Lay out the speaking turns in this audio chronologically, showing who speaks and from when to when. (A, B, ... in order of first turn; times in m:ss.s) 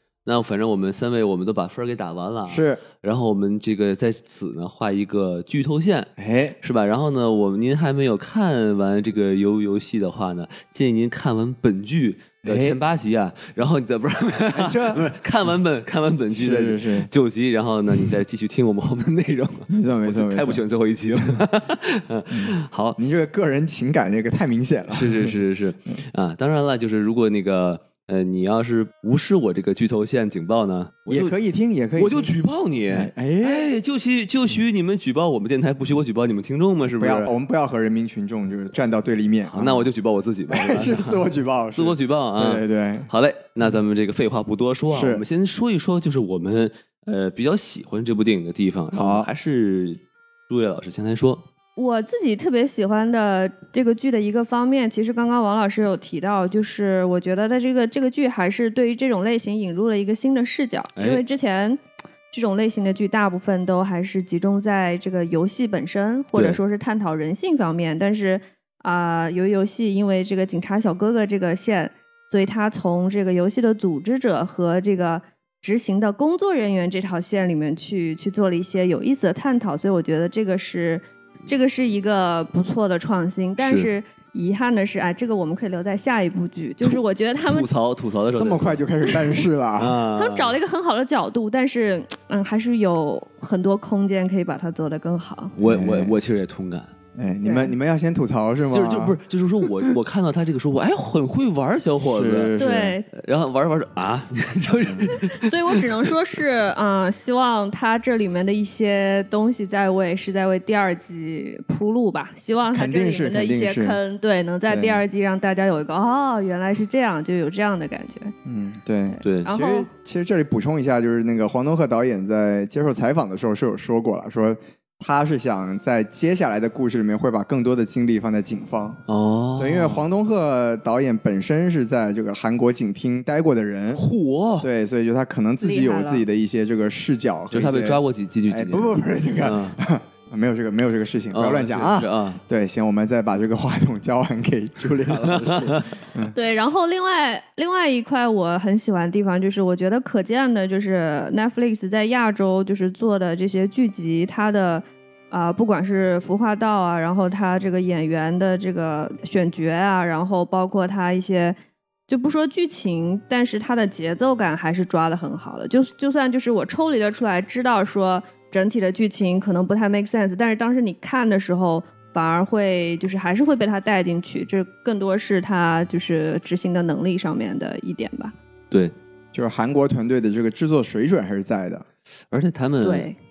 0:00.2-0:23.0 A
0:02.5-0:02.8 B
0:06.2-0:06.6 B
0:12.4-0:12.8 B
0:14.5-0:15.1 B
0:16.3-0:17.1 B
0:19.7-0:20.6 B
0:21.2-0:21.4 B
0:22.3-0:25.4 B
0:24.9-0:31.4 A
0:31.1-0:32.3 B
0:32.0-0:37.3 A
0:32.9-0:33.7 B
0:37.0-0:39.9 B
0:39.5-0:51.4 A
0:40.5-0:43.1 B
0:44.9-0:45.2 B
0:48.9-0:49.3 B
0:51.8-1:27.7 C
1:01.0-1:01.2 A
1:06.3-1:06.6 A
1:23.6-1:23.9 A
1:26.8-1:28.8 A
1:28.4-1:30.0 B
1:29.8-1:30.6 A
1:30.2-1:35.5 C
1:35.6-1:36.9 A
1:35.6-1:36.2 B
1:37.2-1:39.2 B
1:37.4-1:37.7 C
1:38.7-1:46.1 A
1:42.0-1:42.9 B
1:42.6-1:43.1 C
1:45.1-1:58.3 C
1:52.7-1:54.0 B
1:54.7-1:55.0 B
1:58.4-2:09.0 B
1:59.1-1:59.9 C
1:59.2-1:59.5 A
2:09.1-2:10.1 A
2:09.6-2:14.0 B
2:14.0-2:14.7 A
2:14.6-2:26.4 B
2:15.6-2:16.2 C
2:17.5-2:19.8 A
2:21.3-2:22.4 A
2:24.8-2:26.0 A
2:26.3-2:41.6 C
2:42.1-2:58.4 C
2:59.3-3:01.8 B
3:02.3-3:03.1 A
3:02.8-3:03.2 C